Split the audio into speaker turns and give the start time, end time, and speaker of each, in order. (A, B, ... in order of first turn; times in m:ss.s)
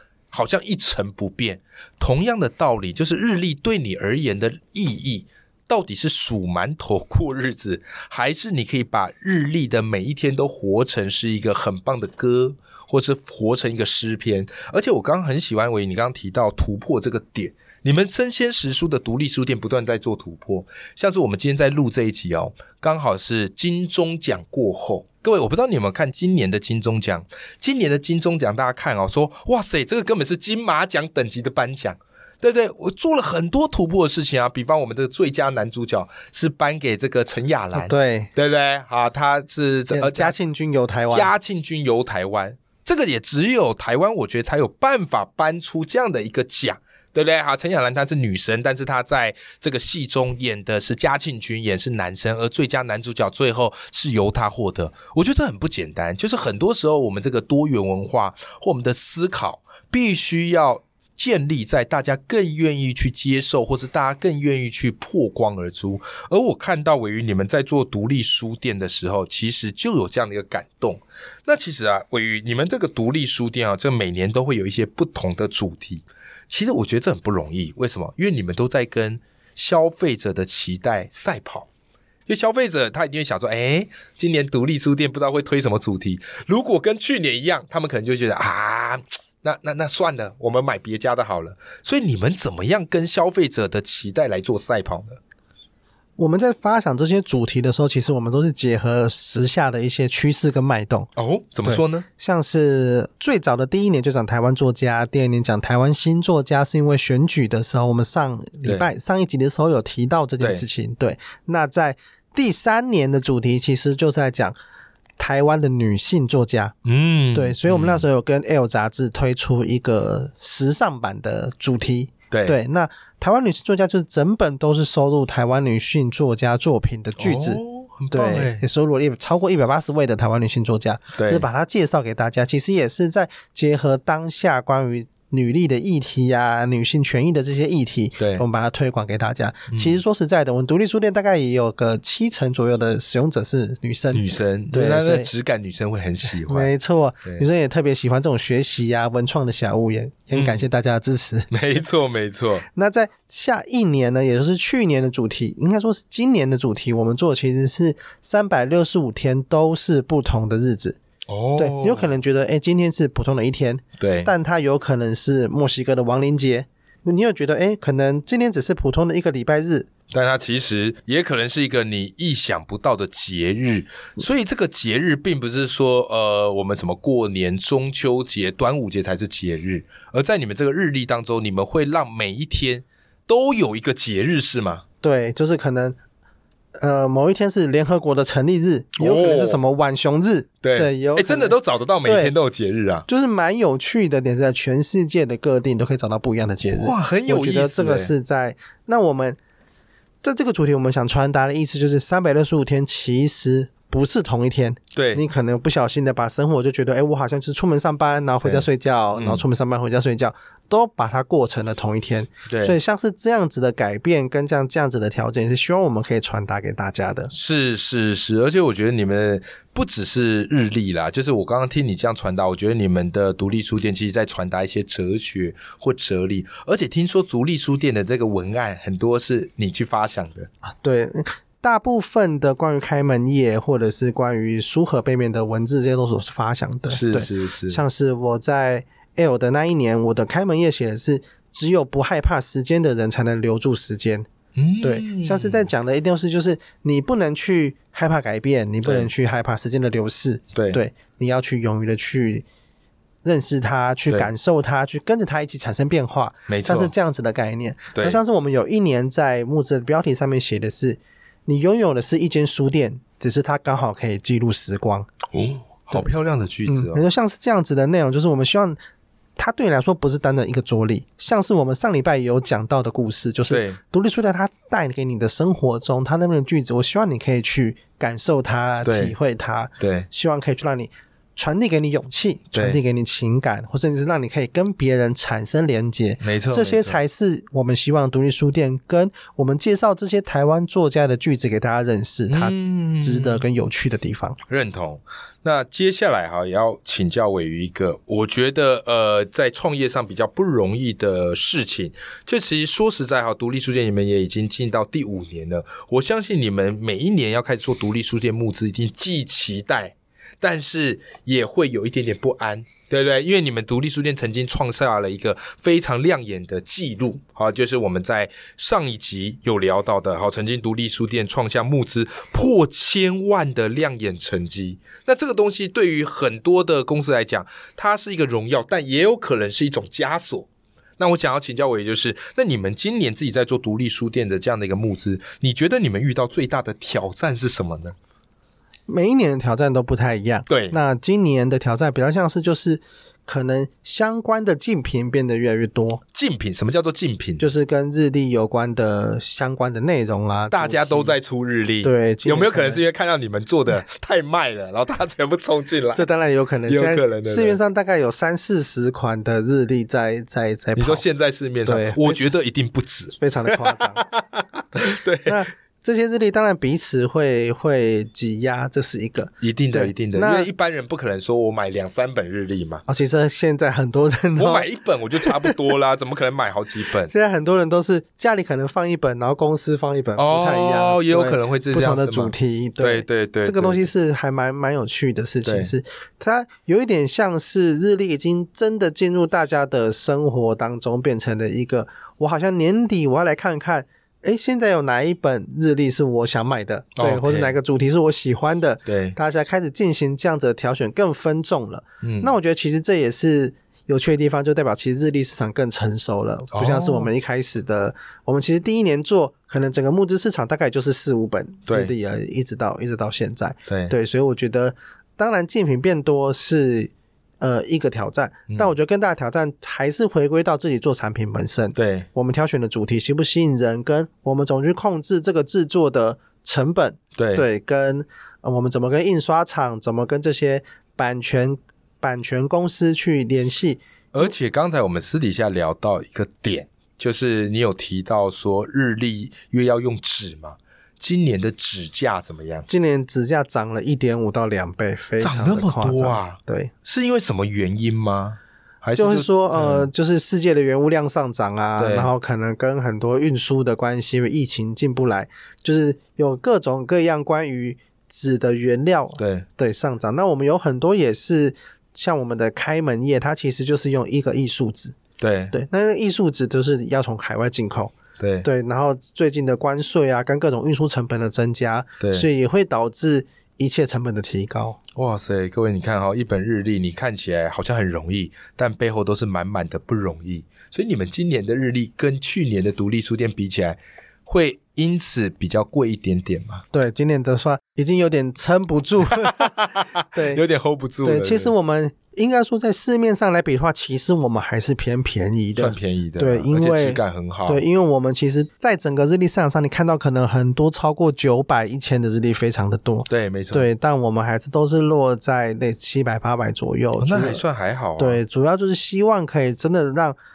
0:00.3-0:40.4 A
0:37.7-0:38.3 B
0:39.9-0:41.3 B
0:41.1-1:21.7 A
1:22.3-1:35.2 A
1:36.2-1:41.1 B
1:41.2-1:42.1 A
1:41.6-1:54.6 B
1:55.2-1:56.7 B
1:56.8-1:58.0 A
1:57.3-2:25.3 B
2:02.3-2:02.6 A
2:07.2-2:08.6 A
2:11.1-2:11.5 A
2:18.2-2:18.4 A
2:19.7-2:20.0 A
2:24.1-2:26.7 A
2:26.4-2:31.5 B
2:30.3-2:30.6 A
2:31.5-2:32.7 A
2:32.8-2:41.0 B
2:41.3-2:42.2 A
2:41.6-2:49.9 B
2:44.0-2:44.3 A
2:50.1-3:04.8 A
3:05.0-3:06.0 B
3:06.8-3:12.3 B
3:09.0-3:09.6 A
3:10.6-3:13.1 A
3:13.1-3:19.4 B
3:16.6-3:18.1 A
3:20.2-3:37.3 B
3:24.9-3:25.2 A
3:28.4-3:29.4 A
3:32.5-3:32.8 A
3:37.3-3:50.5 A
3:50.8-4:04.3 B
3:56.9-3:57.8 A
4:04.6-4:05.7 A
4:04.8-4:12.5 B
4:08.8-4:09.1 A
4:10.5-4:10.8 A
4:13.2-4:25.1 B
4:16.5-4:16.9 A
4:18.0-4:18.2 A
4:25.3-4:27.0 A
4:26.7-4:28.8 B
4:29.4-4:54.4 B
4:33.5-4:33.8 A
4:38.8-4:39.1 A
4:39.8-4:40.1 A
4:42.5-4:42.8 A
4:46.2-4:47.0 A
4:52.3-4:53.4 A
4:54.5-5:38.0 A
5:38.9-5:46.0 B
5:40.5-5:40.8 A
5:46.1-5:47.5 A
5:47.4-5:51.2 B
5:50.5-5:56.1 A
5:51.8-5:52.8 B
5:55.9-6:01.0 B
5:56.7-5:57.6 A
6:00.8-6:05.4 A
6:01.6-6:02.3 B
6:03.2-6:04.0 B
6:05.2-6:10.5 B
6:09.4-6:12.8 A
6:12.9-6:14.7 B
6:14.4-6:17.1 A
6:15.2-6:15.6 B
6:17.1-7:14.3 B
6:20.2-6:23.9 A
6:25.4-6:25.7 A
6:37.0-6:37.6 A
6:38.9-6:39.2 A
6:42.0-6:42.3 A
6:46.5-6:47.1 A
6:51.7-6:51.9 A
6:53.7-6:53.9 A
7:01.8-7:02.1 A
7:07.2-7:07.5 A
7:14.1-7:22.7 A
7:22.7-7:26.7 B
7:25.2-7:29.9 A
7:29.0-7:45.0 B
7:31.8-7:32.1 A
7:39.2-7:39.5 A
7:45.2-7:45.6 A
7:45.5-7:54.8 B
7:48.2-7:48.5 A
7:52.0-7:52.3 A
7:55.0-8:06.6 A
8:06.7-8:09.6 B
8:09.2-8:11.5 A
8:10.1-8:10.4 B
8:11.0-8:27.4 B
8:15.6-8:17.6 A
8:23.1-8:23.7 A
8:27.0-8:28.2 A
8:28.0-8:30.2 B